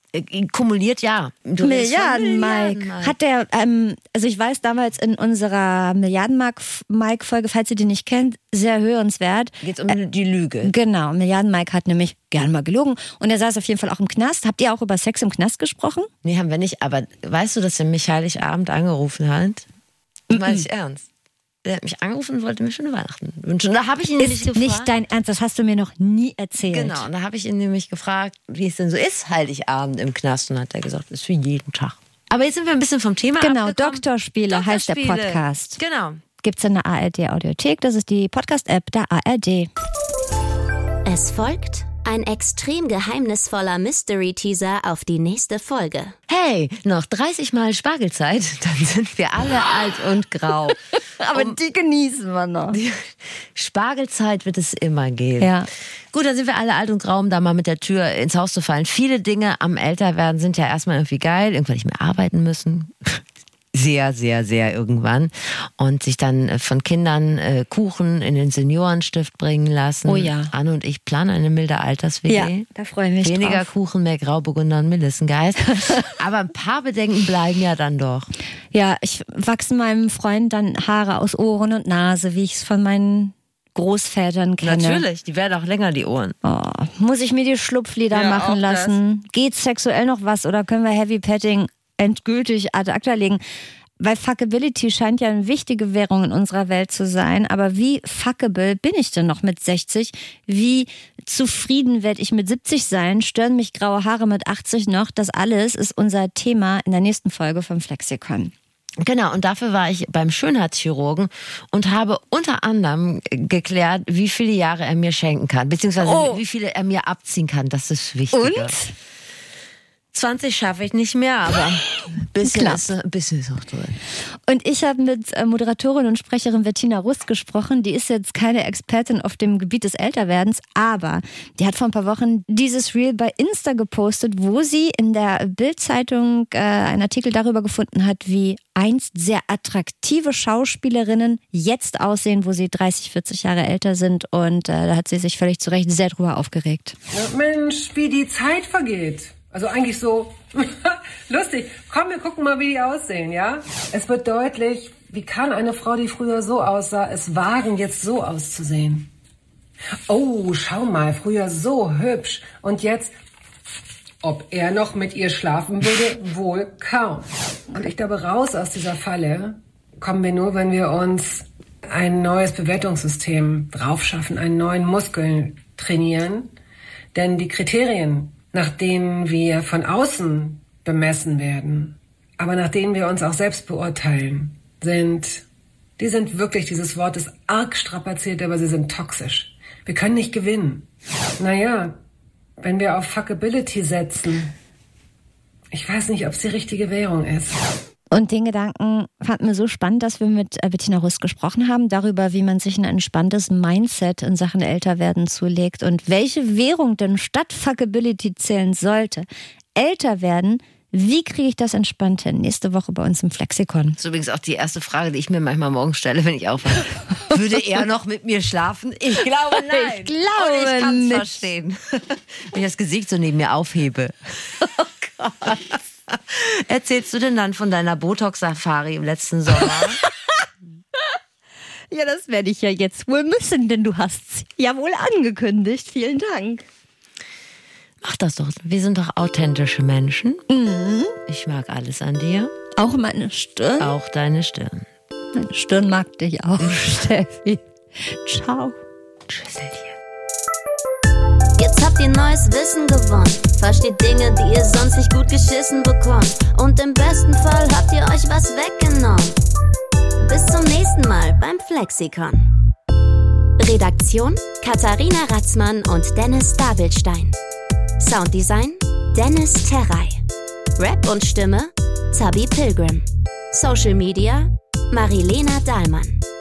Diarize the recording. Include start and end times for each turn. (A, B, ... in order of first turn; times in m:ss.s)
0:00.1-0:03.1 A
0:01.6-0:10.0 B
0:09.6-0:10.7 A
0:10.6-0:16.1 B
0:16.2-0:19.6 A
0:20.3-0:21.0 A
0:20.3-0:20.6 B
0:21.6-0:24.9 A
0:24.2-0:27.0 B
0:26.6-0:36.2 A
0:33.4-0:35.8 B
0:36.4-0:39.7 B
0:41.0-0:46.2 C
0:46.3-0:50.8 A
0:51.2-0:52.8 B
0:52.7-0:55.5 A
0:55.4-0:55.7 B
0:56.1-1:03.2 A
1:03.7-1:12.7 A
1:10.0-1:10.5 B
1:12.3-1:13.7 B
1:13.2-1:18.3 A
1:18.7-1:25.0 B
1:24.6-1:26.4 A
1:26.4-1:33.4 B
1:28.1-1:29.0 A
1:34.0-1:48.5 B
1:49.0-1:58.8 A
1:56.0-1:56.4 B
1:58.3-1:58.9 B
2:00.1-2:04.0 A
2:02.4-2:02.9 B
2:04.5-2:27.0 B
2:27.1-2:39.1 D
2:40.1-2:43.1 D
2:44.2-2:56.5 D
2:57.1-3:05.4 D
3:06.0-3:10.9 D
3:11.4-3:12.0 D
3:12.6-3:14.5 D
3:15.7-3:17.6 D
3:18.1-3:34.0 B
3:34.0-3:44.5 A
3:39.6-3:41.5 B
3:45.0-3:50.0 A
3:51.9-3:56.6 B
3:58.0-4:00.4 A
4:00.5-4:01.2 B
4:01.3-4:02.5 A
4:02.8-4:03.9 B
4:03.8-4:04.9 A
4:05.3-4:08.8 B
4:09.3-4:09.9 A
4:11.6-4:19.4 C
4:20.2-4:22.5 C
4:23.6-4:27.4 C
4:28.0-4:30.2 C
4:30.8-4:36.2 C